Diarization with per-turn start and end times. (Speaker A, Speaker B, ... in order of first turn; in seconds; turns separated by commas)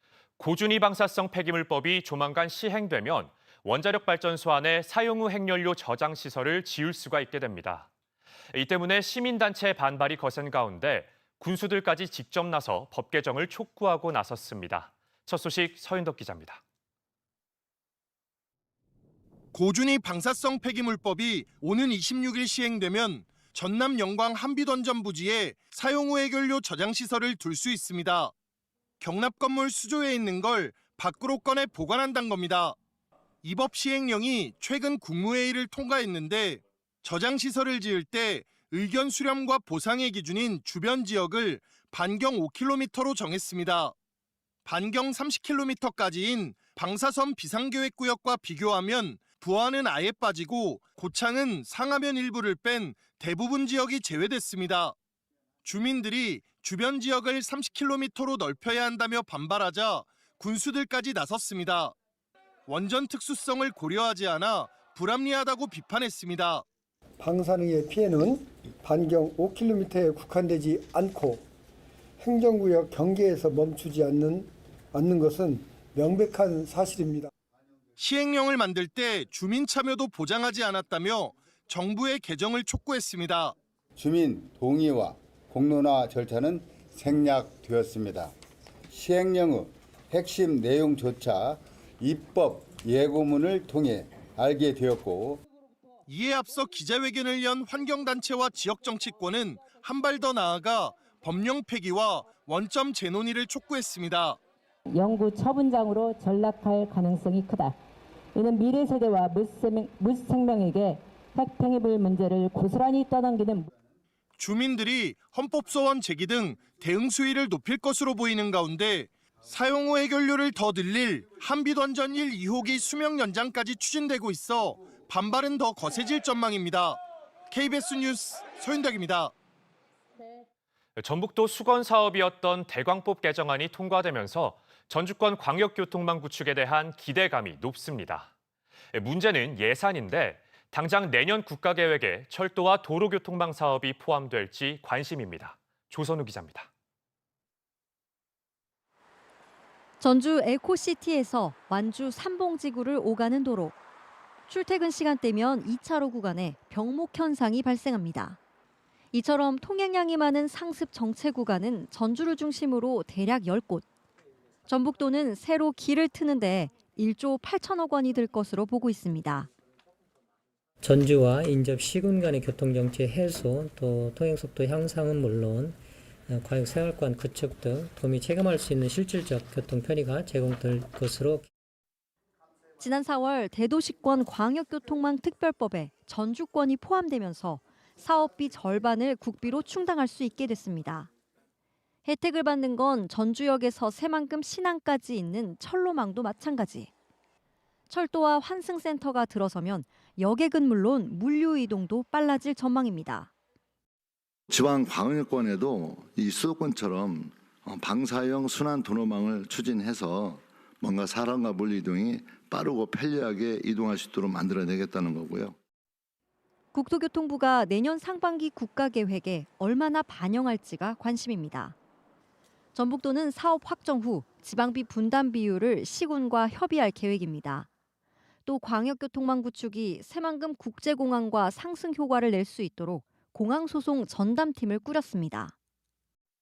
Speaker A: 0.4-7.9, Speaker A: 8.5-16.6, Speaker B: 19.5-28.3, Speaker B: 29.0-32.8, Speaker B: 33.4-43.9, Speaker B: 44.6-54.9, Speaker B: 55.6-61.9, Speaker B: 62.7-66.6, Speaker C: 67.2-71.4, Speaker C: 72.2-77.3, Speaker B: 78.0-83.5, Speaker D: 84.0-88.3, Speaker D: 88.9-95.4, Speaker B: 96.1-104.4, Speaker E: 104.9-107.7, Speaker E: 108.3-113.7, Speaker B: 114.4-127.0, Speaker B: 127.5-129.3, Speaker A: 131.0-138.3, Speaker A: 138.9-146.7, Speaker F: 150.0-153.7, Speaker F: 154.5-158.4, Speaker F: 159.1-163.8, Speaker F: 164.7-169.5, Speaker G: 170.8-175.8, Speaker G: 176.3-181.4, Speaker F: 182.8-191.1, Speaker F: 192.0-196.9, Speaker F: 197.9-203.3, Speaker H: 204.5-215.6, Speaker F: 216.7-221.7, Speaker F: 222.7-227.7, Speaker F: 228.4-235.5